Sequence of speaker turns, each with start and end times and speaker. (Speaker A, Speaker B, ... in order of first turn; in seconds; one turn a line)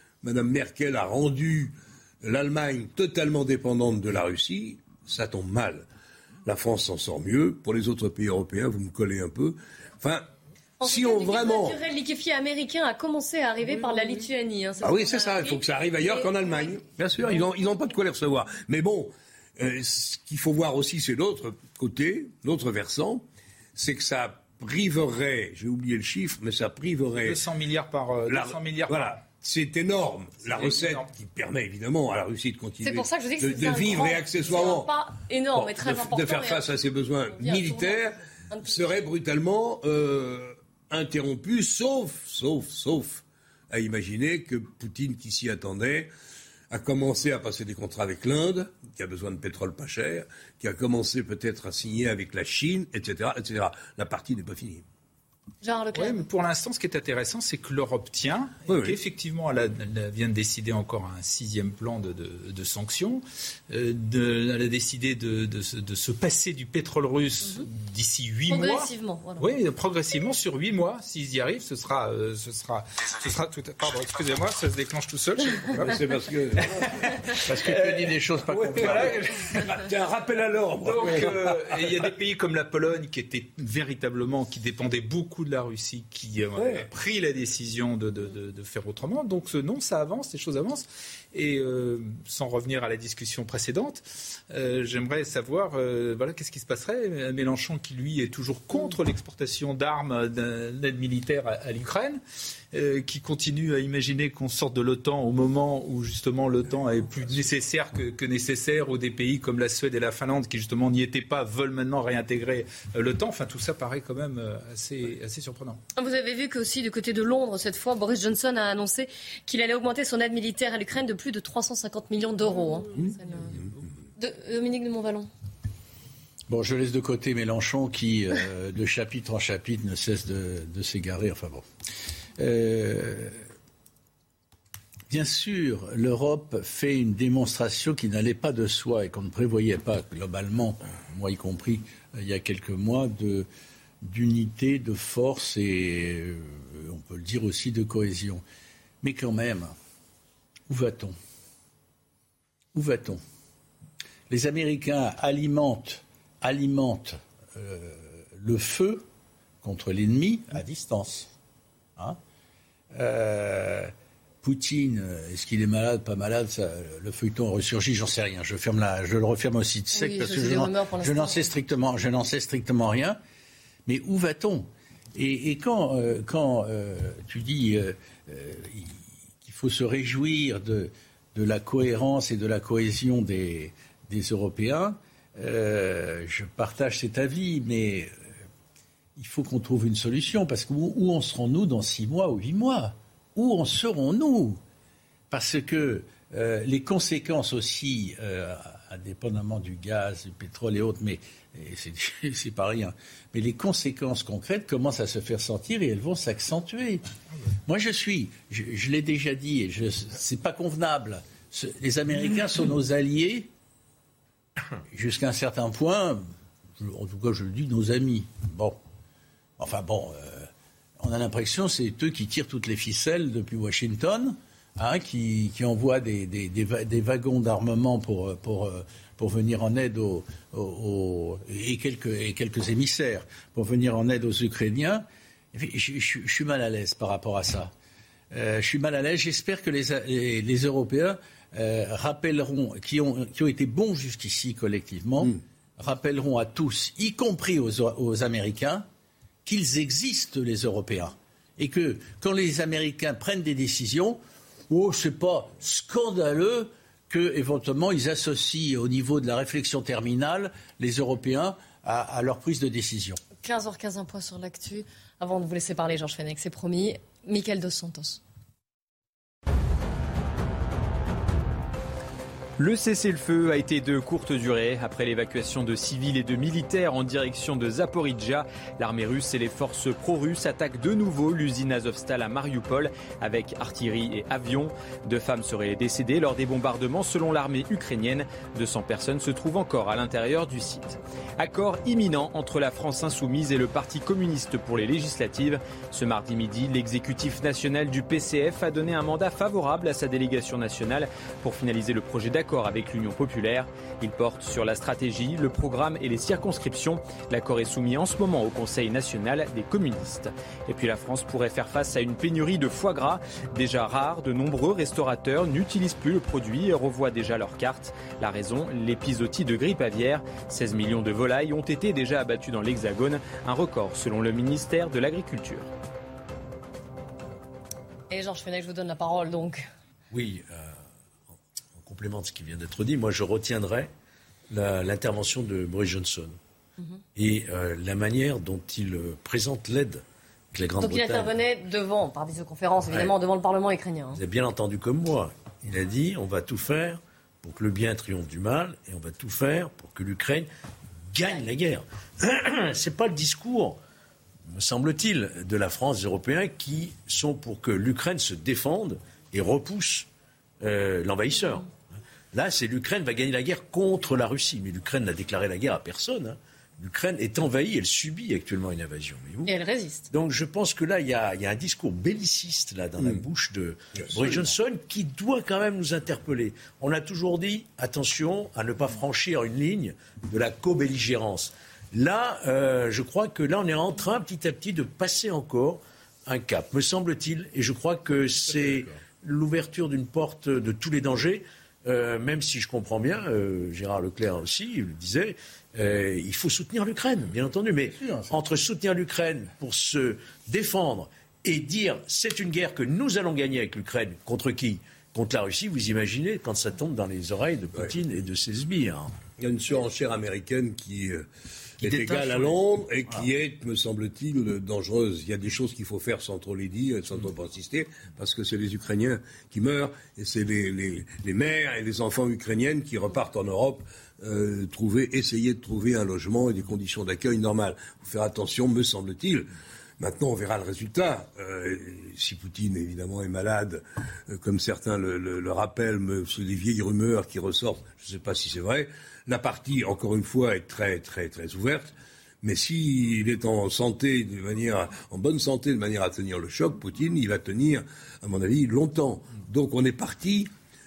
Speaker A: 0.2-5.8
Speaker A: 6.5-10.2
Speaker B: 10.8-16.7
Speaker A: 10.8-11.8
Speaker A: 14.8-23.2
Speaker A: 23.8-27.4
Speaker C: 27.2-29.3
Speaker A: 28.3-34.9
Speaker C: 30.4-31.1
Speaker B: 32.8-36.7
Speaker A: 35.5-46.1
Speaker B: 37.3-39.0
Speaker A: 46.7-54.8
Speaker B: 55.6-56.2
Speaker C: 55.9-76.0
Speaker A: 58.7-59.0
Speaker B: 68.5-69.5
Speaker A: 75.8-77.0
Speaker C: 76.6-79.8
Speaker D: 77.5-79.2
Speaker A: 78.5-82.0
Speaker C: 80.8-102.2
Speaker A: 86.6-86.9
Speaker C: 102.7-115.8
Speaker B: 116.0-123.6
Speaker C: 122.9-123.7
Speaker B: 124.2-125.3
Speaker D: 126.5-131.7
Speaker D: 132.4-133.4
Speaker D: 135.1-143.5
Speaker D: 144.0-148.4
Speaker D: 149.0-149.7
Speaker D: 150.7-151.2
Speaker D: 152.7-153.2
Speaker D: 154.3-159.1
Speaker D: 159.6-161.3
Speaker D: 162.9-173.2
Speaker B: 169.9-171.5
Speaker D: 173.8-188.1
Speaker D: 189.2-194.6
Speaker D: 195.3-207.0
Speaker D: 207.7-213.5
Speaker D: 214.9-216.2
Speaker D: 216.8-218.8
Speaker D: 219.6-237.7
Speaker D: 238.3-248.8
Speaker D: 249.4-263.2
Speaker B: 263.4-268.2
Speaker E: 272.6-325.7
Speaker B: 328.1-329.7
Speaker F: 330.1-330.8
Speaker F: 331.7-333.9
Speaker F: 334.5-336.4
Speaker F: 337.1-341.3
Speaker B: 340.8-344.2
Speaker F: 344.1-350.5
Speaker F: 351.1-353.8
Speaker F: 354.5-360.1
Speaker F: 360.6-361.7
Speaker F: 362.3-369.5
Speaker B: 369.4-370.1
Speaker F: 370.1-409.1
Speaker A: 374.0-374.4
Speaker D: 397.9-398.4
Speaker A: 409.4-411.2
Speaker F: 411.8-413.2
Speaker A: 411.8-450.5